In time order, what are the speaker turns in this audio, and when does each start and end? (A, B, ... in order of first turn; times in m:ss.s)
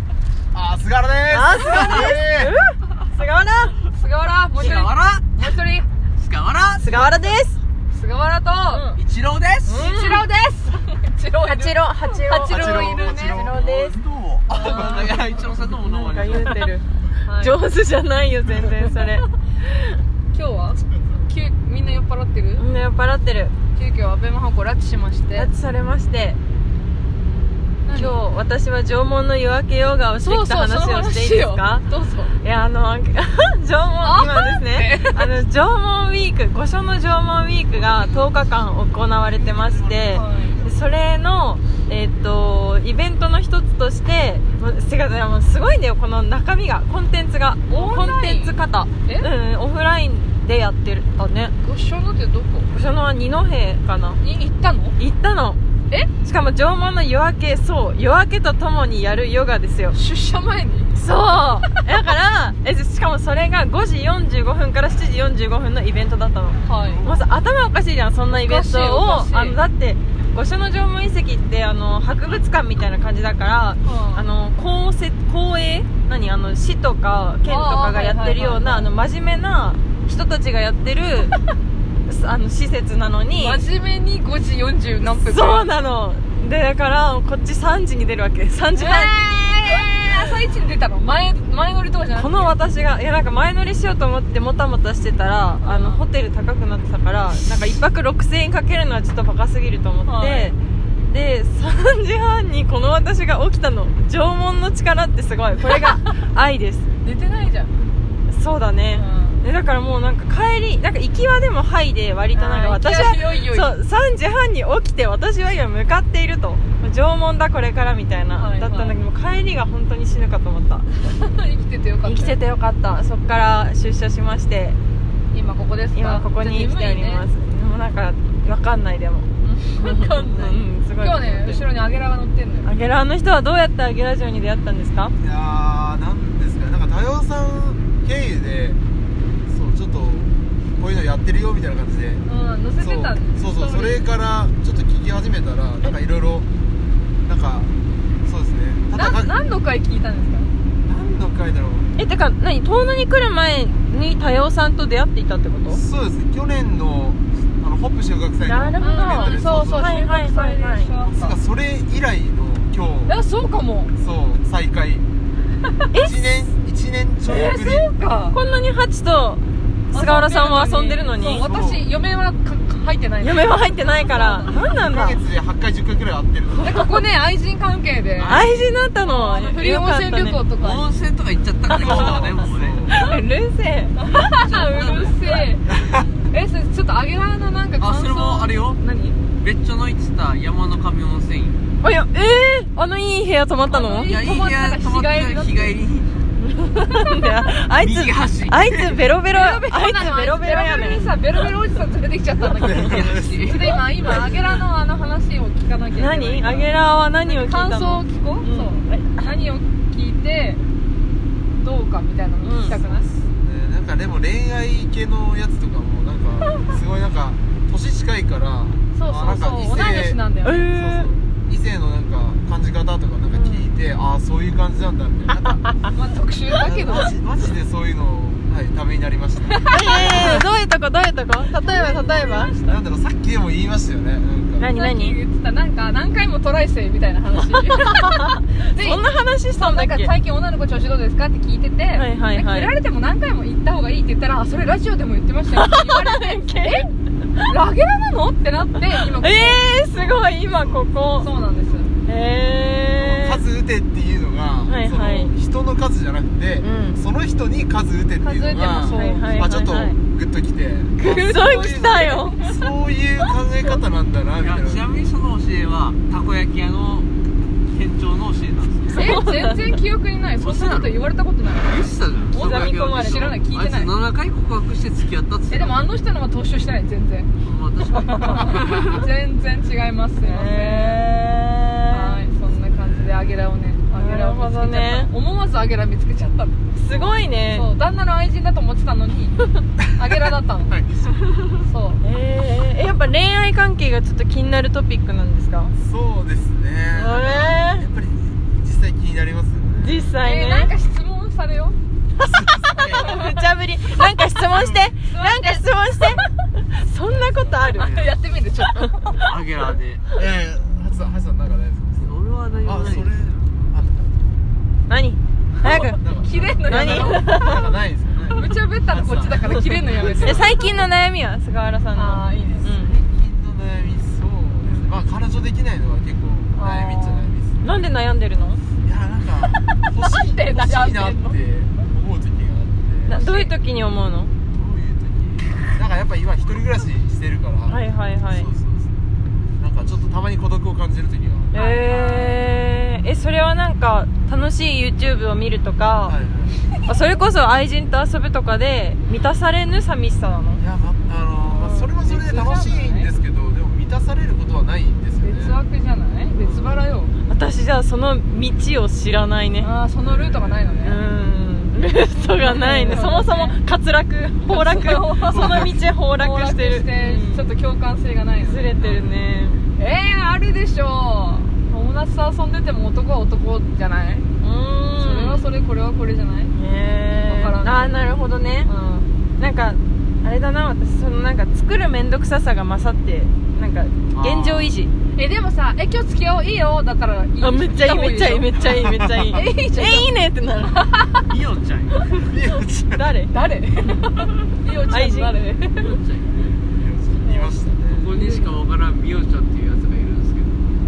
0:00.5-0:02.6 A
0:01.3-0:03.8 B
0:03.9-0:05.9 C
0:04.5-0:05.4 D
0:06.2-0:07.0 D
0:06.8-0:07.2 C
0:06.8-0:07.6 B
0:07.9-0:08.8 C
0:08.7-0:09.0 B
0:08.9-0:09.9 D
0:09.6-0:13.5 C
0:09.7-0:10.3 B
0:11.4-0:14.0 B
0:12.4-0:13.7 A
0:13.5-0:16.6 D
0:14.5-0:15.2 C
0:14.6-0:15.0 A
0:15.8-0:16.8 B
0:17.2-0:17.6 C
0:17.4-0:19.2 B
0:18.8-0:19.1 C
0:20.3-0:22.6 C
0:20.9-0:21.2 A
0:22.6-0:23.5 B
0:23.7-0:25.5 C
0:25.4-0:26.4 B
0:27.8-0:28.2 C
0:27.9-0:31.8 B
0:30.2-0:32.4 C
0:32.4-0:51.5 B
0:34.0-0:35.4 C
0:37.7-0:38.5 A
0:39.2-0:40.8 A
0:40.1-0:40.6 C
0:47.7-0:49.3 C
0:51.6-0:52.8 C
0:52.7-0:54.2 B
0:54.2-0:55.0 C
0:55.0-0:55.6 B
0:56.2-1:00.0 B
0:59.9-1:00.9 C
1:01.0-1:21.4 B
1:06.6-1:07.0 C
1:06.8-1:07.3 A
1:08.3-1:09.6 C
1:13.8-1:14.3 C
1:17.4-1:18.9 C
1:22.0-1:23.6 B
1:23.3-1:25.7 C
1:25.2-1:29.1 B
1:28.7-1:32.5 C
1:32.1-1:40.6 B
1:35.6-1:36.0 C
1:40.0-1:40.5 C
1:41.1-1:46.8 B
1:47.0-1:47.7 C
1:48.3-2:00.8 B
1:48.9-1:49.4 C
1:52.3-1:53.8 C
1:58.3-1:59.0 C
2:01.0-2:02.4 C
2:02.0-2:04.8 B
2:05.3-2:07.2 C
2:05.9-2:11.6 B
2:09.4-2:12.7 C
2:12.6-2:15.1 B
2:15.2-2:18.8 A
2:19.5-2:22.2 A
2:22.2-2:24.0 C
2:22.8-2:26.5 A
2:27.2-2:29.3 A
2:28.9-2:30.5 C
2:30.8-2:31.9 A
2:32.0-2:35.8 B
2:35.7-2:40.0 A
2:38.4-2:40.9 B
2:38.8-2:41.4 C
2:41.0-2:43.2 A
2:43.1-2:43.9 C
2:43.9-2:45.1 A
2:45.9-2:46.2 B
2:46.0-2:47.9 A
2:47.2-2:48.4 C
2:48.3-2:51.4 B
2:49.9-2:54.6 C
2:51.2-2:51.9 A
2:53.2-2:55.2 B
2:54.7-2:56.8 A
2:56.6-2:58.4 C
2:58.2-3:00.4 B
2:59.0-3:00.9 C
3:00.6-3:02.9 D
3:01.7-3:03.0 A
3:01.7-3:02.1 B
3:02.9-3:04.1 B
3:04.0-3:05.7 C
3:04.4-3:05.3 D
3:05.7-3:06.1 A
3:06.3-3:09.2 C
3:07.8-3:08.8 D
3:09.4-3:11.6 D
3:11.8-3:14.2 B
3:13.7-3:15.7 C
3:13.9-3:16.1 D
3:16.4-3:21.1 B
3:17.8-3:19.0 D
3:19.3-3:26.7 C
3:22.6-3:23.5 A
3:22.7-3:23.8 D
3:25.9-3:29.3 B
3:27.2-3:30.6 C
3:31.6-3:33.0 C
3:32.4-3:32.8 B
3:32.7-3:45.6 A
3:38.9-3:40.7 C
3:40.4-3:41.1 B
3:43.3-3:43.7 B
3:45.9-3:47.1 C
3:46.5-3:50.4 A
3:49.5-3:50.3 C
3:49.7-3:52.6 B
3:51.5-3:52.8 C
3:52.7-3:54.7 A
3:54.6-3:55.2 B
3:54.7-3:59.0 C
3:58.2-4:00.1 B
3:59.6-4:06.9 C
4:01.9-4:02.7 B
4:05.5-4:07.5 B
4:07.5-4:09.7 C
4:09.2-4:11.3 B
4:09.9-4:11.8 A
4:11.2-4:11.9 C
4:12.0-4:13.4 B
4:13.0-4:24.9 A
4:14.7-4:15.3 B
4:16.6-4:17.0 B
4:18.2-4:19.3 C
4:18.8-4:20.0 B
4:21.0-4:22.5 B
4:24.4-4:29.2 D
4:28.9-4:33.9 C
4:29.0-4:29.6 B
4:30.4-4:31.0 D
4:31.6-4:35.8 D
4:32.3-4:33.2 B
4:35.5-4:37.3 C
4:37.4-4:39.0 D
4:37.8-4:41.0 C
4:40.2-4:42.2 B
4:41.9-4:46.6 C
4:43.9-4:45.1 B
4:46.7-4:47.7 B
4:47.5-4:50.7 C
4:50.7-4:51.3 A
4:51.6-4:52.0 C
4:52.0-4:55.7 B
4:55.8-5:00.1 A
4:56.9-4:57.8 B
4:59.8-5:00.7 B
5:00.2-5:01.8 C
5:02.2-5:03.2 A
5:02.7-5:07.9 B
5:02.8-5:03.3 C
5:04.5-5:04.9 A
5:05.0-5:06.3 C
5:07.1-5:09.2 C
5:07.7-5:08.2 D
5:09.2-5:10.0 D
5:10.1-5:14.3 A
5:12.0-5:13.6 D
5:14.9-5:16.0 B
5:15.6-5:17.6 C
5:16.0-5:20.5 A
5:16.7-5:17.6 B
5:18.3-5:20.6 C
5:19.4-5:22.9 B
5:21.9-5:22.7 C
5:22.6-5:27.7 A
5:26.5-5:27.3 C
5:27.6-5:28.6 B
5:28.8-5:33.2 A
5:30.0-5:31.4 C
5:33.1-5:34.3 B
5:33.1-5:33.5 C
5:34.5-5:39.0 A
5:37.7-5:38.5 B
5:39.6-5:41.6 A
5:41.5-5:46.2 B
5:41.5-5:42.4 C
5:46.0-5:46.6 A
5:46.8-5:50.6 B
5:50.6-5:55.6 A
5:51.7-5:53.1 C
5:55.2-5:57.1 C
5:56.3-5:56.8 D
5:57.3-5:59.7 B
5:59.6-6:01.0 C
6:00.1-6:00.8 A
6:00.8-6:07.5 B
6:02.4-6:03.6 C
6:04.4-6:05.6 C
6:05.3-6:05.8 A
6:06.2-6:08.8 C
6:08.4-6:09.6 B
6:09.8-6:14.3 C
6:14.4-6:15.5 B
6:14.9-6:16.5 C
6:16.6-6:18.7 B
6:17.1-6:18.0 C
6:18.6-6:19.1 C
6:19.4-6:24.9 B
6:24.1-6:24.7 D
6:25.1-6:28.7 C
6:27.4-6:30.9 B
6:28.7-6:29.4 A
6:29.3-6:30.1 C
6:30.8-6:31.2 C
6:31.3-6:32.0 D
6:32.1-6:33.1 A
6:32.9-6:33.3 B
6:33.3-6:35.9 C
6:34.9-6:35.3 B
6:35.8-6:36.6 D
6:36.7-6:38.1 A
6:37.2-6:37.5 C
6:37.9-6:40.7 D
6:38.2-6:38.6 C